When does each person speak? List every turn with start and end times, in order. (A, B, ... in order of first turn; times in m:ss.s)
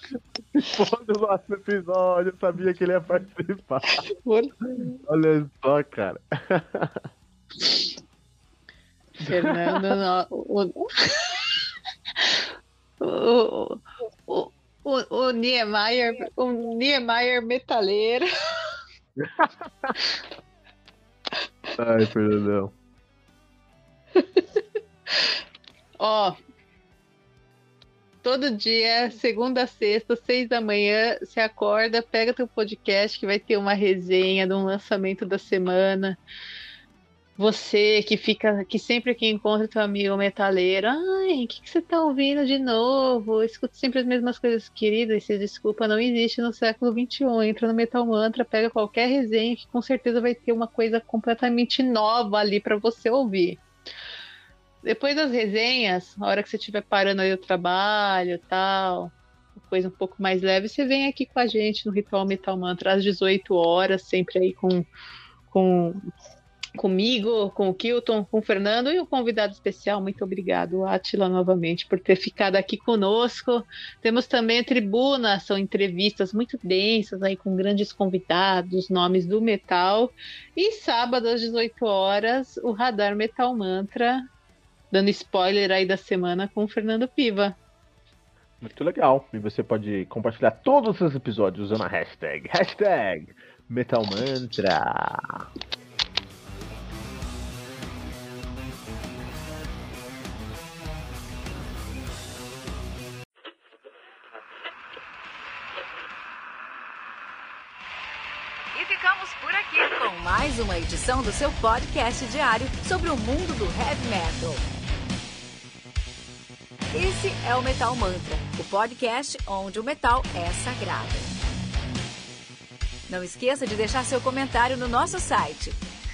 0:00.5-0:04.0 A
0:04.2-0:05.0 B
0:05.0-0:07.0 A
0:09.2-0:11.4 B
0:09.2-0:09.9 A
0:13.0-0:18.2 B
0:19.2-0:20.0 A
0:21.8-0:22.7 A
0:26.0-0:26.4 B
0:28.2-0:36.2 B
0:37.4-0:53.6 B
0:54.8-1:04.9 B
1:05.5-1:06.0 B
1:06.8-1:24.2 B
1:24.9-1:27.5 B
1:28.6-1:35.4 A
1:48.7-1:54.6 C
1:56.9-2:01.4 C
2:03.1-2:05.8 C